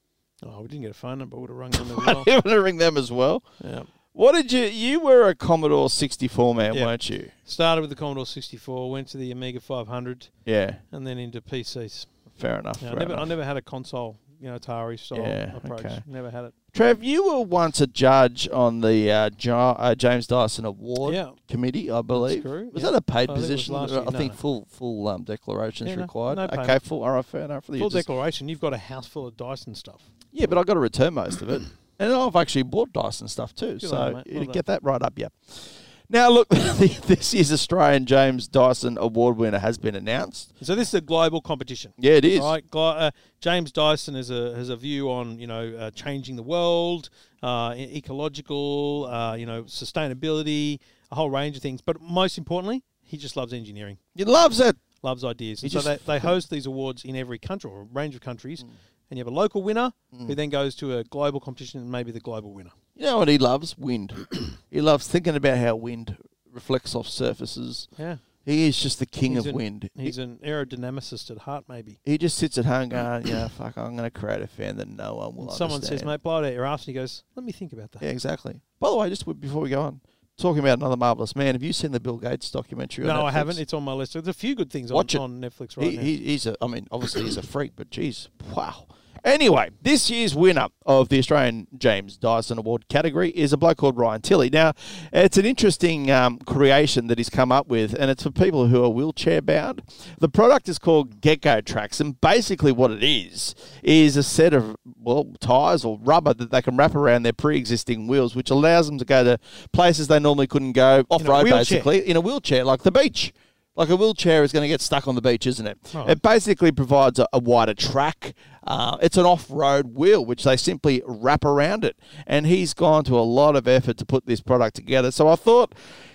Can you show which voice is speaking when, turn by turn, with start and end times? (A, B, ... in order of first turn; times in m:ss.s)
0:00.4-0:02.3 A
0:01.7-0:03.4 B
0:03.6-0:03.9 A
0:04.1-0:07.3 B
0:07.4-0:10.3 A
0:10.4-0:10.8 B
0:10.9-0:12.1 A
0:12.3-0:13.3 B
0:12.8-0:16.5 A
0:15.1-0:16.0 B
0:16.7-0:28.0 B
0:21.0-0:21.4 A
0:22.1-0:24.4 A
0:25.8-0:26.8 A
0:27.8-0:30.1 A
0:30.3-0:40.5 B
0:33.8-0:34.6 A
0:40.6-0:54.0 A
0:42.0-0:42.5 B
0:54.1-0:54.8 B
0:55.0-1:02.7 A
0:55.6-0:56.3 B
1:00.1-1:00.4 B
1:03.0-1:07.9 B
1:08.4-1:10.1 B
1:09.3-1:12.0 A
1:12.0-1:16.1 B
1:15.4-1:18.0 A
1:18.0-1:23.6 B
1:23.0-1:26.1 A
1:24.9-1:25.2 B
1:25.8-2:05.7 B
1:51.2-1:51.9 A
1:55.9-1:56.2 A